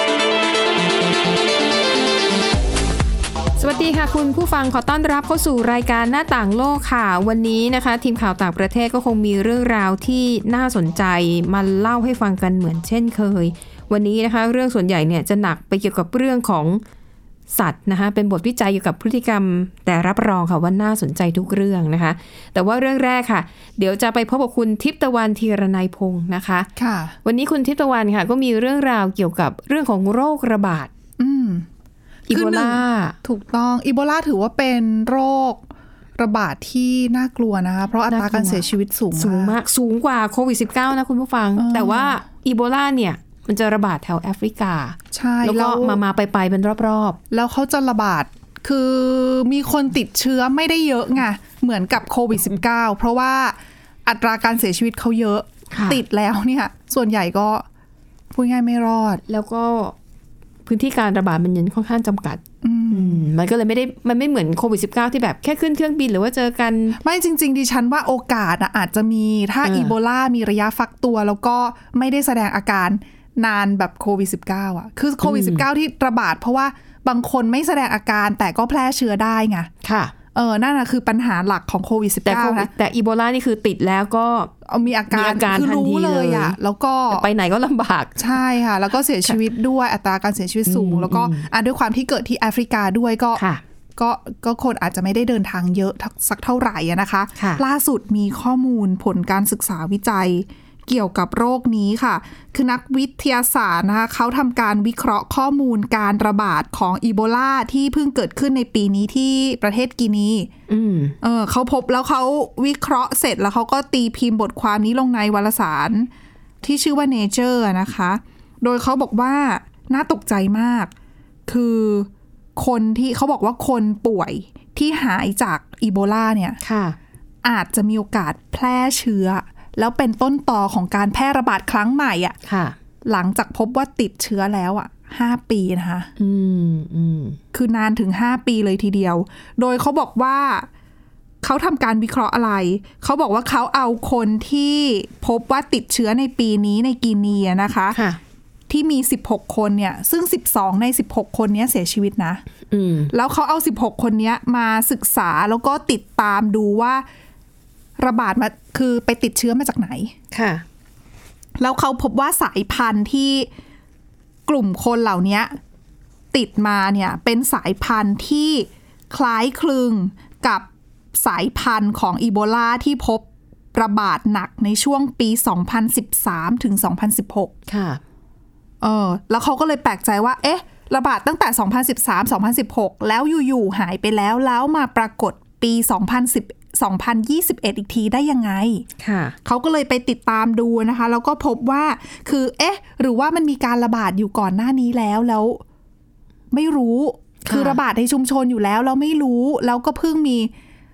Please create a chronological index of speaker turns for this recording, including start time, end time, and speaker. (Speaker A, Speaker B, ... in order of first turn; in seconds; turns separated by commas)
Speaker A: 3.6-16.8, Speaker A: 17.5-26.7, Speaker B: 26.8-27.2, Speaker A: 27.2-30.9, Speaker B: 31.2-31.7, Speaker A: 32.3-33.2, Speaker B: 32.3-39.6, Speaker A: 38.1-38.6, Speaker A: 39.1-47.2, Speaker B: 41.6-42.2, Speaker B: 45.1-46.0, Speaker B: 47.3-57.7, Speaker A: 55.7-56.0, Speaker B: 58.3-59.2, Speaker A: 59.3-60.0, Speaker A: 60.7-67.0, Speaker B: 62.6-63.3, Speaker B: 67.0-79.7, Speaker A: 69.6-69.9, Speaker A: 75.2-75.7, Speaker A: 79.8-80.1, Speaker B: 80.3-82.7, Speaker A: 82.3-84.5, Speaker B: 84.7-87.3, Speaker A: 85.1-86.6, Speaker A: 87.1-88.2, Speaker B: 88.2-93.4, Speaker A: 90.7-91.5, Speaker A: 93.3-93.6, Speaker B: 94.0-110.5, Speaker A: 110.7-111.2, Speaker B: 111.2-116.1, Speaker B: 116.6-120.9, Speaker B: 121.5-126.6, Speaker A: 126.6-127.0, Speaker B: 127.4-132.4, Speaker A: 132.5-132.8, Speaker B: 133.1-136.1, Speaker A: 136.2-137.4, Speaker B: 137.5-140.7, Speaker B: 141.4-148.0, Speaker A: 147.9-148.2, Speaker B: 148.7-152.4, Speaker A: 152.7-153.1, Speaker B: 153.1-157.1, Speaker B: 158.0-160.1, Speaker A: 160.3-160.6, Speaker B: 161.6-163.5, Speaker B: 164.5-165.6, Speaker B: 166.3-177.5, Speaker A: 177.7-178.0, Speaker B: 178.8-188.9, Speaker A: 189.0-189.4, Speaker B: 189.4-195.6, Speaker B: 196.5-200.5, Speaker A: 197.5-197.8